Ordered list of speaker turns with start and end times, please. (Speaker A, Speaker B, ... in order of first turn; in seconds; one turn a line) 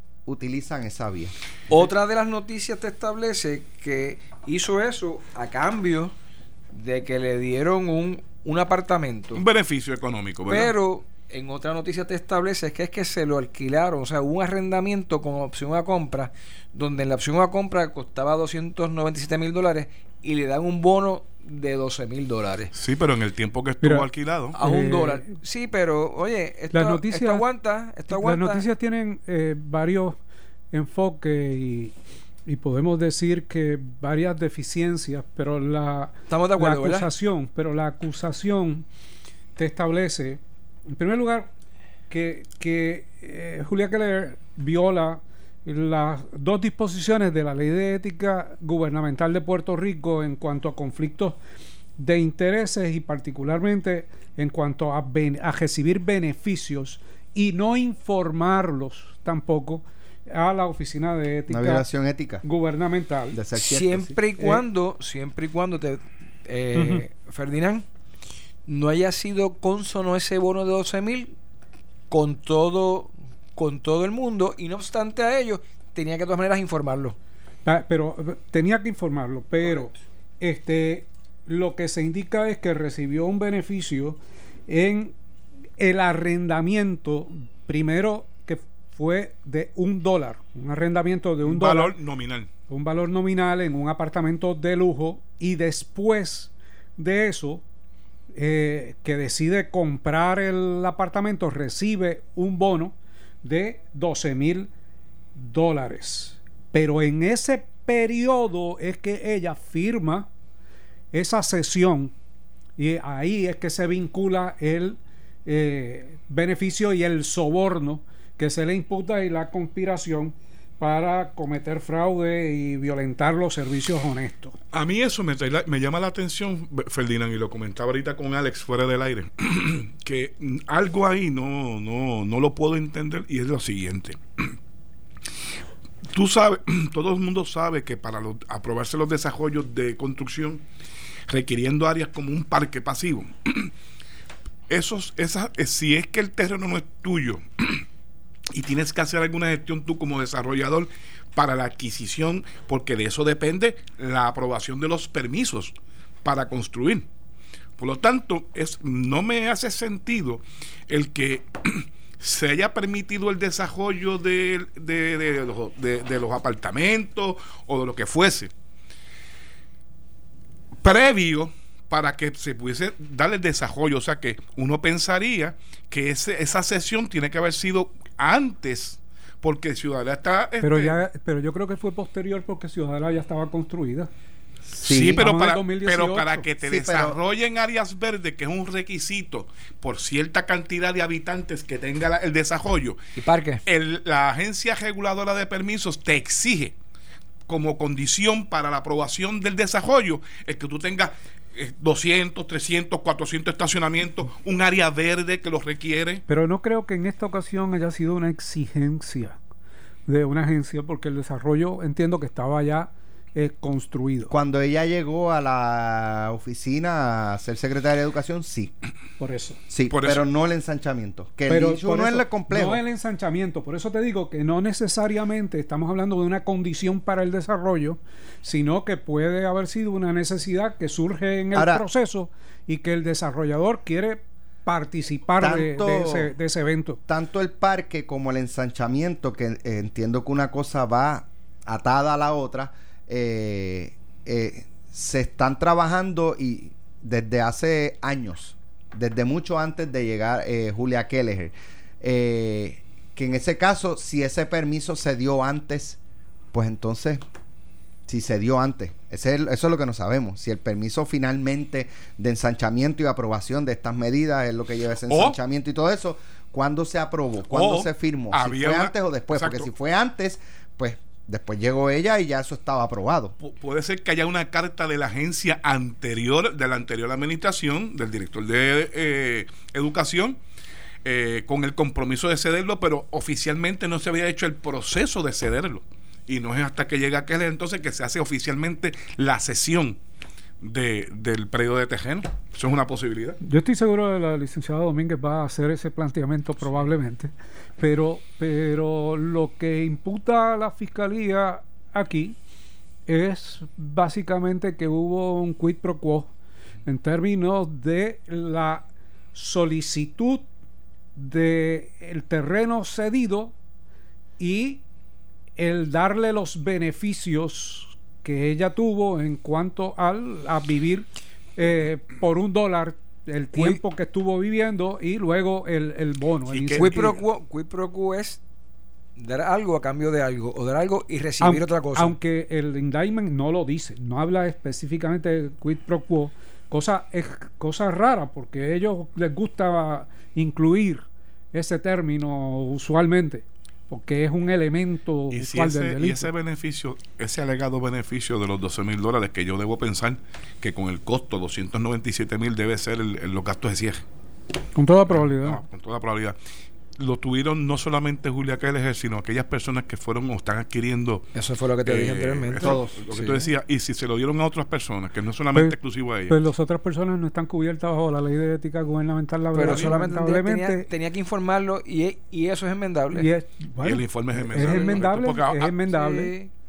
Speaker A: 0.2-1.3
Speaker B: 1.7-6.1
Speaker B: 6.7-9.4
Speaker C: 9.3-10.7
Speaker B: 10.5-22.7
Speaker C: 22.7-24.6
Speaker D: 23.8-24.1
Speaker B: 24.5-28.6
Speaker D: 24.6-25.3
Speaker D: 26.7-27.4
Speaker D: 28.1-30.2
Speaker D: 30.7-31.9
Speaker D: 32.5-38.9
Speaker B: 36.3-37.1
Speaker D: 39.5-41.5
Speaker D: 42.1-51.4
Speaker D: 52.0-61.9
Speaker A: 61.5-62.4
Speaker D: 62.4-63.4
Speaker A: 63.3-64.2
Speaker B: 63.6-67.8
Speaker D: 66.7-67.0
Speaker B: 68.7-71.3
Speaker B: 72.1-77.2
Speaker D: 77.6-85.1
Speaker D: 85.8-92.0
Speaker C: 91.4-92.5
Speaker D: 92.7-97.6
Speaker D: 98.3-104.7
Speaker D: 105.3-110.3
Speaker D: 111.1-112.1
Speaker D: 112.8-124.5
Speaker C: 124.7-134.5
Speaker C: 136.1-140.6
Speaker C: 141.3-143.7
Speaker C: 144.7-147.8
Speaker C: 148.5-157.1
Speaker C: 157.8-168.5
Speaker C: 170.8-181.0
Speaker D: 180.6-184.1
Speaker C: 184.8-193.0
Speaker A: 184.8-185.2
Speaker D: 185.0-186.5
Speaker A: 186.6-187.2
Speaker B: 193.2-193.6
Speaker C: 193.7-196.7
Speaker C: 197.5-206.2
Speaker D: 206.3-209.4
Speaker D: 210.1-214.3
Speaker A: 214.3-218.7
Speaker D: 219.2-219.6
Speaker A: 219.7-222.8
Speaker C: 219.9-220.2
Speaker D: 221.5-237.0
Speaker A: 231.5-231.8
Speaker A: 235.4-236.3
Speaker A: 237.1-256.0
Speaker A: 256.5-257.2
Speaker A: 258.1-273.4
Speaker C: 265.1-265.4
Speaker C: 267.5-269.7
Speaker C: 273.4-280.4
Speaker C: 281.0-290.0
Speaker C: 290.6-293.4
Speaker D: 293.4-302.4
Speaker D: 303.1-306.3
Speaker D: 306.8-310.4
Speaker D: 311.1-313.5
Speaker D: 314.4-314.8
Speaker D: 315.6-327.2
Speaker C: 326.5-327.1
Speaker B: 326.8-328.4
Speaker B: 329.1-332.1
Speaker D: 331.4-346.3
Speaker C: 345.3-354.1
Speaker D: 354.7-355.6
Speaker C: 355.1-356.4
Speaker C: 357.0-361.2
Speaker B: 361.3-363.5
Speaker C: 361.8-366.4
Speaker A: 362.6-363.0
Speaker D: 366.3-370.9
Speaker B: 369.5-373.3
Speaker D: 373.1-376.3
Speaker C: 373.8-375.7
Speaker B: 374.4-375.0
Speaker B: 375.9-376.5